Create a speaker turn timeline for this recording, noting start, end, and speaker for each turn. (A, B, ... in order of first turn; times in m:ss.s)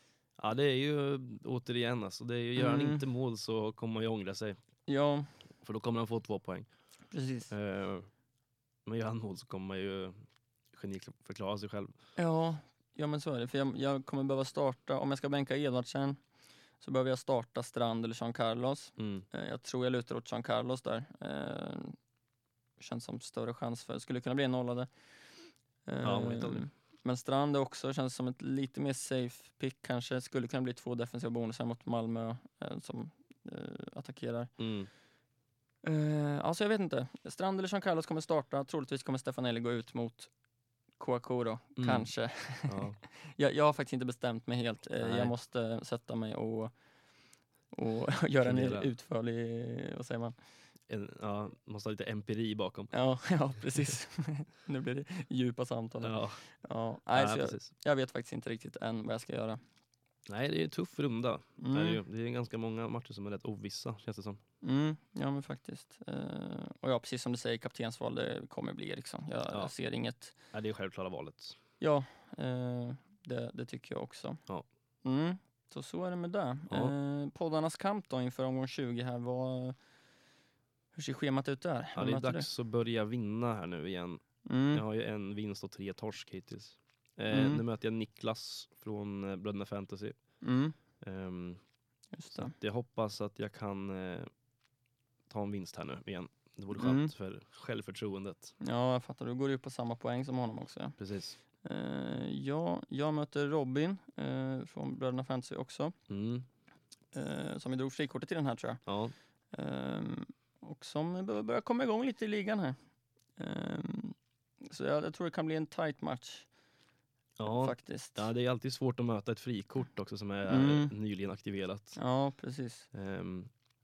0:00.4-0:04.6 A
0:02.6-0:03.0 B
0:04.9-0:05.3 B
0:05.6-0:06.7 A
0:07.1-0:07.5 B
0:07.5-0:08.1 A
0:08.8-0:12.0 A
0:12.2-0:16.2 B
0:16.8-0:22.0 B
0:19.0-0:19.2 A
0:22.8-0:24.9 B
0:25.9-0:34.5 B
0:26.0-0:26.6 A
0:34.6-0:34.9 A
0:35.8-0:40.3 B
0:41.0-0:46.7 B
0:41.8-0:43.0 A
0:45.0-0:45.3 A
0:47.7-0:50.3 B
0:48.4-0:48.9 A
0:50.9-0:52.9 A
0:52.9-0:59.6 B
0:56.0-0:56.4 A
0:57.1-0:57.7 A
1:00.3-1:04.4 A
1:01.6-1:02.0 B
1:04.6-1:10.4 B
1:10.5-1:11.6 A
1:11.8-1:14.4 B
1:15.0-1:19.8 B
1:20.9-1:22.5 B
1:21.9-1:30.2 A
1:24.4-1:24.8 B
1:27.3-1:27.6 B
1:30.4-1:30.8 B
1:31.0-1:31.6 A
1:32.1-1:32.5 B
1:32.3-1:34.3 A
1:35.3-1:38.5 A
1:36.7-1:37.1 B
1:38.6-1:41.0 B
1:41.0-1:41.4 A
1:41.6-1:46.0 B
1:46.1-1:46.4 A
1:47.1-1:48.8 B
1:48.8-1:49.1 A
1:49.5-1:52.8 B
1:53.4-1:56.5 B
1:57.4-2:02.0 A
1:57.4-1:58.3 B
2:00.5-2:00.9 B
2:02.0-2:02.9 B
2:02.9-2:03.5 A